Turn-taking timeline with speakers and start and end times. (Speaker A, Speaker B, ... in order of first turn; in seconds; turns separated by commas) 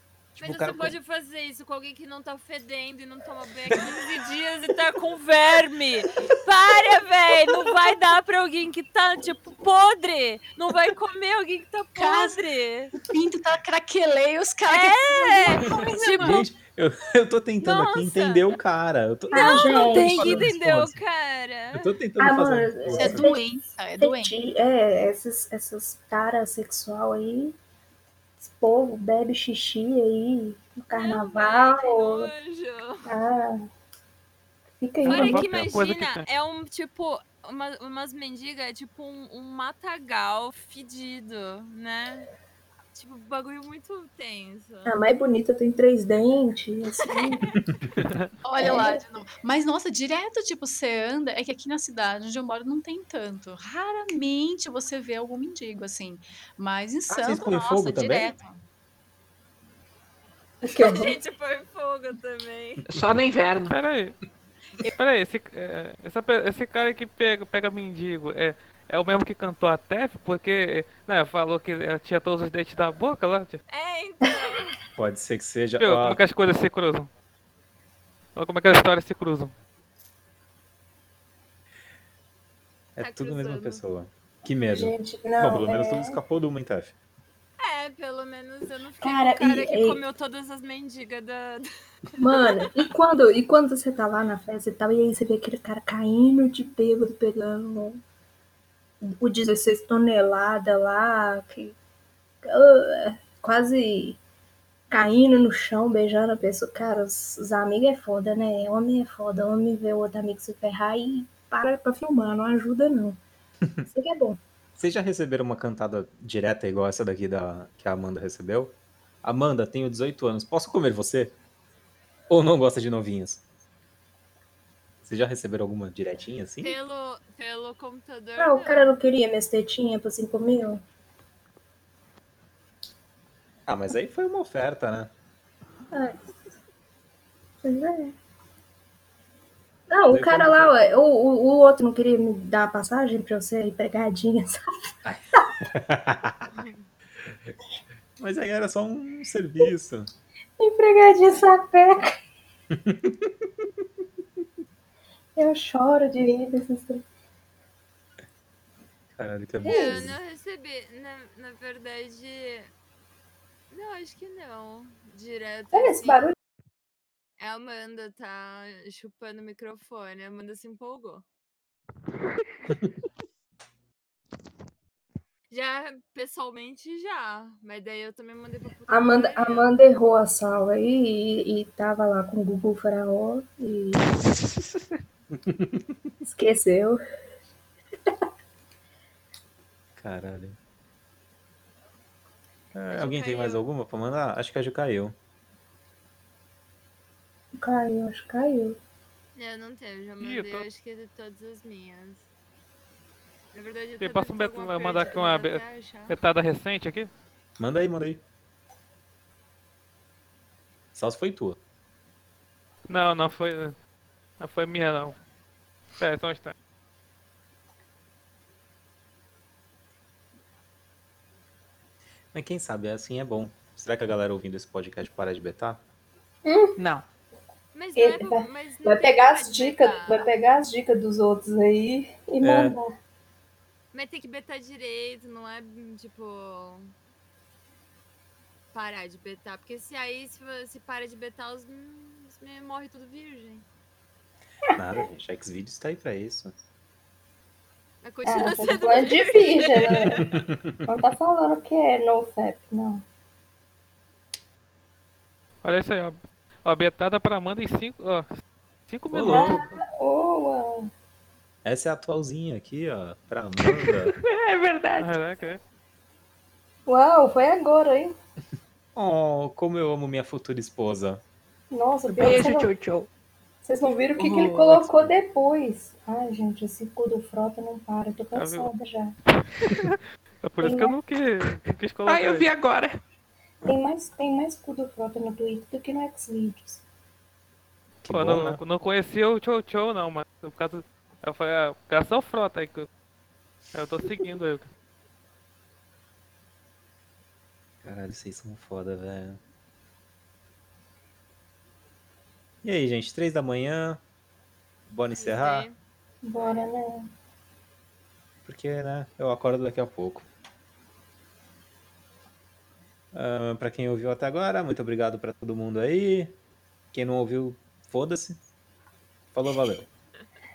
Speaker A: 0.4-0.9, Speaker B: 0.4-12.9, Speaker C: 11.9-12.4, Speaker C: 13.0-16.5, Speaker B: 14.7-16.4, Speaker A: 15.7-21.0, Speaker B: 17.6-18.6, Speaker D: 19.3-20.5, Speaker B: 19.3-21.9, Speaker A: 21.7-23.3, Speaker D: 22.2-27.6, Speaker C: 22.9-24.4, Speaker D: 28.4-32.3, Speaker B: 30.9-33.1, Speaker D: 33.0-33.7, Speaker D: 34.8-35.5, Speaker E: 35.0-36.2, Speaker B: 35.0-42.3, Speaker B: 42.9-45.0, Speaker D: 44.9-47.5, Speaker B: 47.1-47.6, Speaker E: 48.0-48.3, Speaker C: 48.4-58.6, Speaker D: 48.6-49.0, Speaker A: 57.1-58.3, Speaker D: 60.6-61.2, Speaker B: 60.6-62.8, Speaker F: 62.9-63.8, Speaker E: 63.7-64.2, Speaker E: 65.0-73.6, Speaker B: 73.7-74.8, Speaker A: 75.0-76.2, Speaker E: 75.8-77.1, Speaker E: 78.4-79.5, Speaker A: 83.0-87.0, Speaker B: 83.0-83.8, Speaker D: 84.7-86.2, Speaker B: 87.6-91.7, Speaker D: 89.0-90.0, Speaker D: 92.2-98.0, Speaker D: 99.1-101.8, Speaker D: 102.4-104.2, Speaker D: 104.9-113.2, Speaker D: 113.9-114.4, Speaker A: 114.8-121.4, Speaker A: 122.3-123.4, Speaker A: 125.0-126.8, Speaker B: 126.6-128.9, Speaker D: 128.4-130.8, Speaker A: 133.7-135.1, Speaker D: 135.9-136.2, Speaker D: 137.6-138.2, Speaker D: 139.9-144.9, Speaker A: 140.1-140.8, Speaker A: 145.1-146.6, Speaker B: 146.6-146.9, Speaker A: 148.2-150.1, Speaker D: 150.6-152.0, Speaker A: 152.7-153.3, Speaker D: 155.4-157.0, Speaker A: 159.2-160.2, Speaker D: 159.6-160.1, Speaker B: 159.6-162.7, Speaker B: 163.7-166.2, Speaker D: 165.7-166.3, Speaker B: 167.4-171.2, Speaker B: 175.5-179.7, Speaker D: 178.9-184.1, Speaker A: 185.3-185.9, Speaker D: 186.2-187.0, Speaker A: 190.0-190.6, Speaker A: 192.7-195.2, Speaker B: 192.9-193.7, Speaker D: 197.6-198.8, Speaker B: 199.3-202.3, Speaker E: 200.2-200.7, Speaker B: 203.5-206.2, Speaker E: 204.0-207.1, Speaker A: 207.6-208.2, Speaker A: 210.9-211.6, Speaker E: 212.9-213.8, Speaker E: 214.4-215.2, Speaker E: 216.0-216.5, Speaker A: 222.3-225.8, Speaker D: 226.4-226.8, Speaker F: 226.8-227.1, Speaker B: 227.7-230.3, Speaker D: 228.0-232.9, Speaker A: 232.4-232.8, Speaker B: 233.9-236.9, Speaker B: 238.7-243.7, Speaker A: 244.7-246.5, Speaker B: 248.0-250.2, Speaker D: 248.2-250.3, Speaker A: 250.1-250.8, Speaker D: 250.8-253.0, Speaker E: 255.6-258.3, Speaker E: 258.9-259.6, Speaker A: 259.1-259.8, Speaker D: 259.3-260.9, Speaker A: 261.6-264.1, Speaker F: 263.6-265.1, Speaker E: 265.0-265.6, Speaker D: 266.9-268.1, Speaker A: 269.0-271.2, Speaker D: 271.7-272.7, Speaker F: 272.1-273.1, Speaker D: 273.6-279.2, Speaker F: 274.2-274.9, Speaker E: 278.4-278.7, Speaker E: 279.6-282.5, Speaker D: 280.6-281.0, Speaker F: 282.1-283.0, Speaker D: 283.6-286.8, Speaker A: 288.0-288.6, Speaker E: 288.1-292.9, Speaker E: 293.7-294.7, Speaker A: 297.8-299.4, Speaker A: 302.6-304.0, Speaker A: 304.9-305.7, Speaker B: 305.1-305.8, Speaker D: 306.2-307.1, Speaker B: 306.4-306.6, Speaker A: 308.5-310.3, Speaker A: 313.1-316.4, Speaker A: 316.9-318.4, Speaker A: 319.3-319.9